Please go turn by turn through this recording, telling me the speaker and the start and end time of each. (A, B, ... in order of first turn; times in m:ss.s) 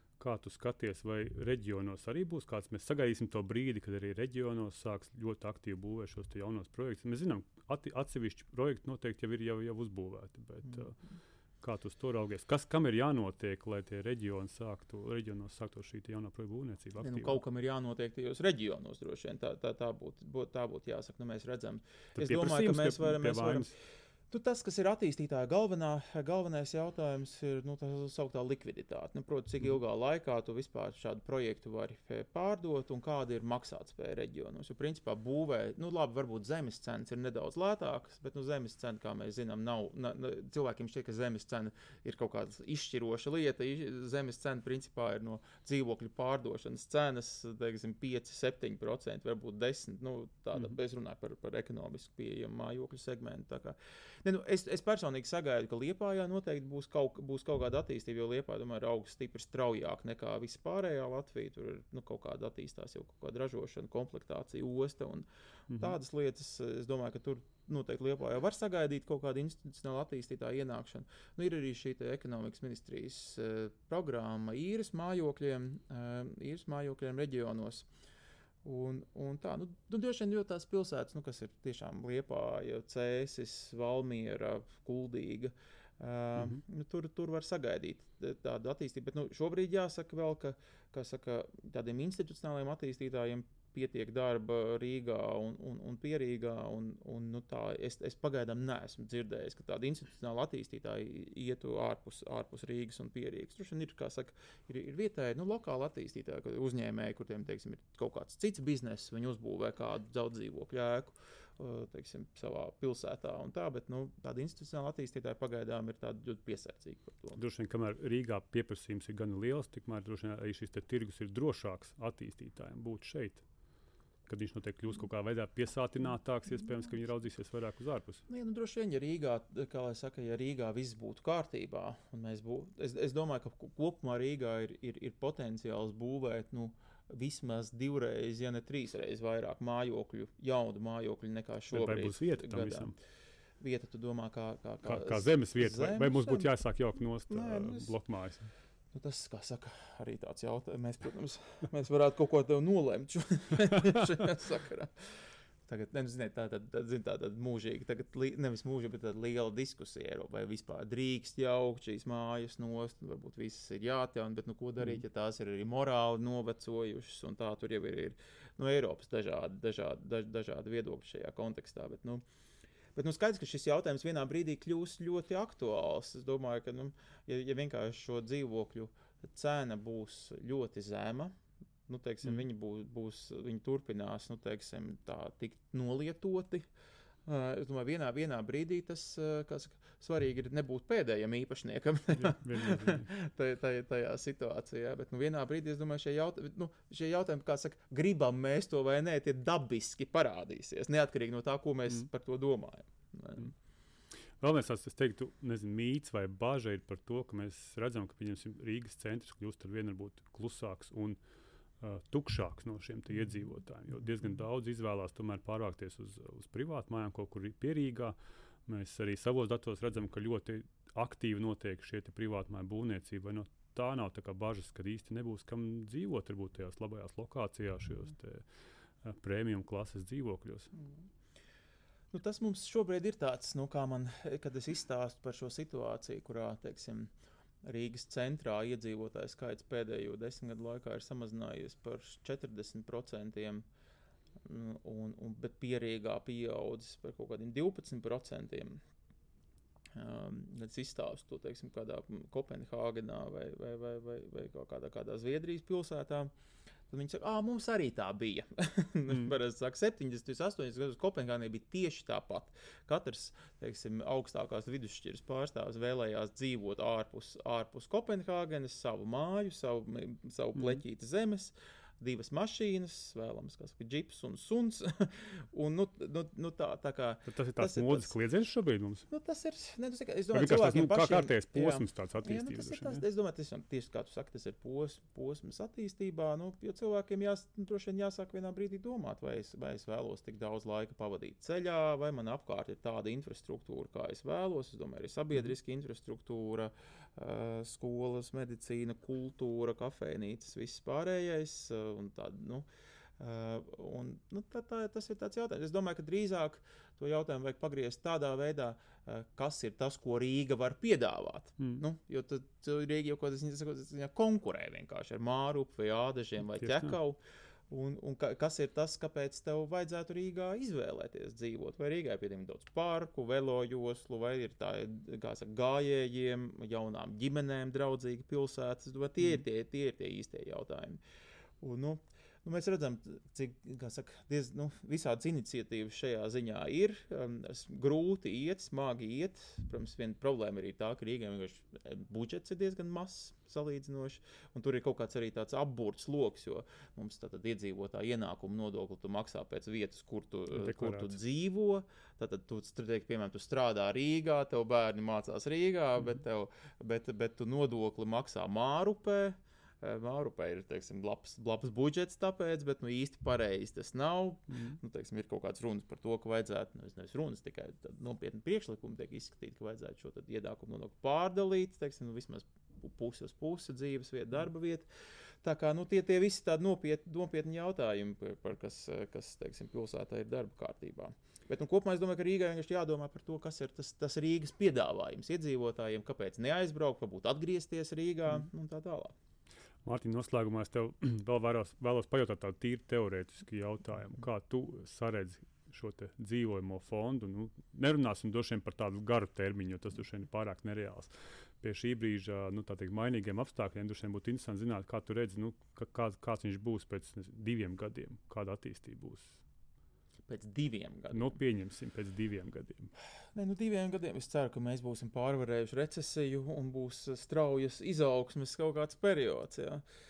0:00.2-0:11.0 A
0:11.6-0:17.4 A
0:17.0-0:23.7 B
0:22.2-0:23.7 A
0:24.3-1:17.9 B
1:18.6-1:57.4 B
1:57.4-2:03.4 A
2:04.3-2:08.2 A
2:08.3-2:22.9 B
2:21.7-2:22.9 A
2:23.6-2:26.5 B
2:24.8-2:28.5 A
2:27.3-2:27.9 B
2:28.9-2:52.2 B
2:52.9-3:06.7 B
3:07.2-3:23.5 B
3:12.2-3:13.1 A
3:24.4-3:31.2 A
3:31.8-3:48.5 A
3:49.0-3:50.7 A
3:52.1-4:03.6 B
4:04.4-4:08.8 B
4:09.9-4:16.3 B
4:16.9-4:38.1 B
4:37.2-4:39.1 A
4:39.1-5:02.7 B
4:40.3-4:43.0 A
5:03.2-5:31.0 B
5:31.6-6:14.8 B
5:50.5-5:51.1 A
6:15.4-6:29.1 B
6:29.8-6:49.4 A
6:50.2-6:51.4 B
6:51.1-6:52.9 A
6:53.3-6:59.8 B